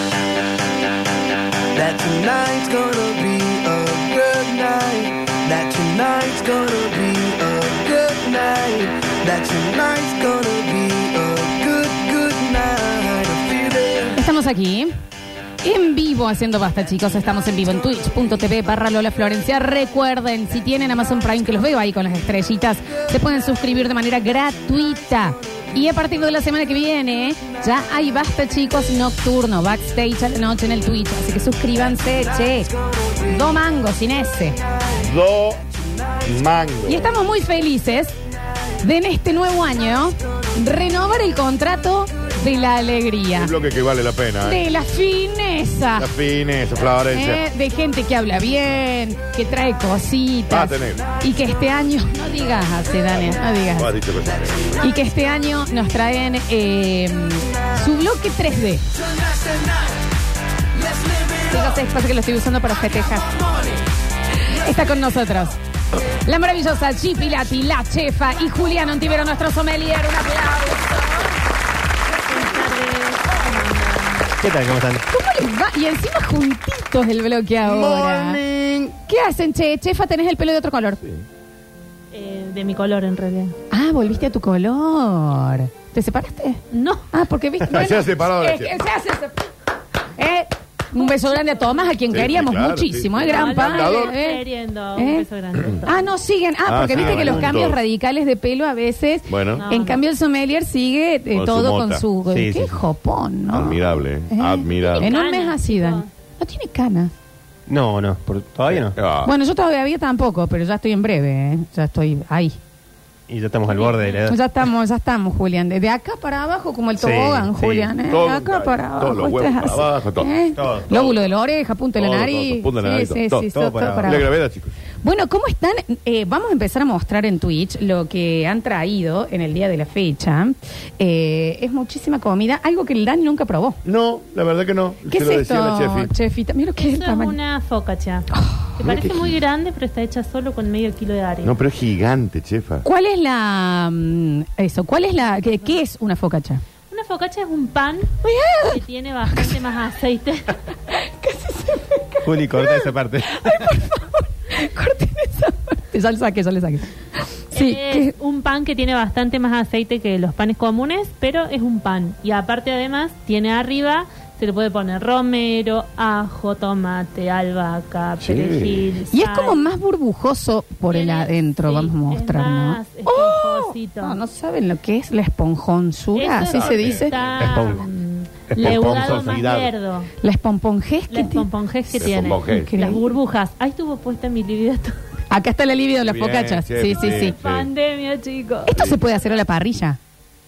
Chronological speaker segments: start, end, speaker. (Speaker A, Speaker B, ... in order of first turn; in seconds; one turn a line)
Speaker A: 1.7-14.2
Speaker B: 14.1-14.9
Speaker B: 15.6-32.7
Speaker B: 33.2-34.6
Speaker C: 35.0-35.6
Speaker C: 36.2-37.1
Speaker B: 36.9-38.2
Speaker B: 38.8-43.5
Speaker C: 43.4-44.6
Speaker B: 44.4-46.1
Speaker C: 46.0-47.4
Speaker B: 47.1-53.9
Speaker C: 50.5-51.1
Speaker C: 53.7-54.8
Speaker B: 54.8-58.8
Speaker B: 61.4-63.4
Speaker B: 64.4-71.3
Speaker D: 72.3-74.3
Speaker E: 74.4-75.0
Speaker B: 75.1-78.4
Speaker C: 77.6-79.0
Speaker B: 79.1-81.0
Speaker D: 82.1-83.5
Speaker B: 83.7-86.6
Speaker D: 86.7-87.0
Speaker B: 87.1-89.5
Speaker C: 87.7-88.8
Speaker B: 90.2-94.4
Speaker D: 91.2-92.0
Speaker C: 92.1-94.1
Speaker D: 93.2-96.1
Speaker B: 94.9-95.2
Speaker B: 95.8-107.1
Speaker C: 96.6-97.8
Speaker E: 96.9-97.7
Speaker C: 99.3-99.6
Speaker D: 99.5-100.0
Speaker C: 101.3-102.0
Speaker E: 102.3-102.8
Speaker C: 103.5-105.1
Speaker D: 104.8-106.1
Speaker E: 107.7-108.9
Speaker C: 108.7-109.3
Speaker B: 109.2-112.6
Speaker E: 113.3-114.4
Speaker D: 113.7-114.2
Speaker B: 114.2-124.3
Speaker E: 117.0-117.9
Speaker C: 118.0-120.3
Speaker E: 120.5-121.0
Speaker C: 122.0-123.5
Speaker E: 123.5-124.2
Speaker C: 124.0-124.8
Speaker B: 125.0-133.8
Speaker C: 133.8-136.1
Speaker B: 135.1-137.3
Speaker D: 136.8-141.5
Speaker B: 138.3-138.7
Speaker C: 138.8-139.3
Speaker C: 141.4-142.8
Speaker B: 142.8-146.6
Speaker D: 145.3-145.8
Speaker D: 146.9-148.1
Speaker B: 148.2-149.6
Speaker D: 148.7-150.6
Speaker B: 150.9-156.9
Speaker E: 152.2-153.8
Speaker B: 157.5-158.1
Speaker D: 157.5-169.7
Speaker C: 168.2-168.8
Speaker B: 169.1-177.1
Speaker D: 170.9-174.2
Speaker D: 176.1-180.1
Speaker C: 176.5-177.8
Speaker E: 177.4-177.8
Speaker E: 178.5-179.0
Speaker C: 178.5-179.7
Speaker B: 180.2-181.4
Speaker D: 181.1-184.9
Speaker C: 182.0-182.7
Speaker B: 182.5-183.0
Speaker B: 185.3-187.3
Speaker C: 186.0-187.7
Speaker D: 186.9-189.2
Speaker B: 188.7-190.0
Speaker C: 188.7-189.0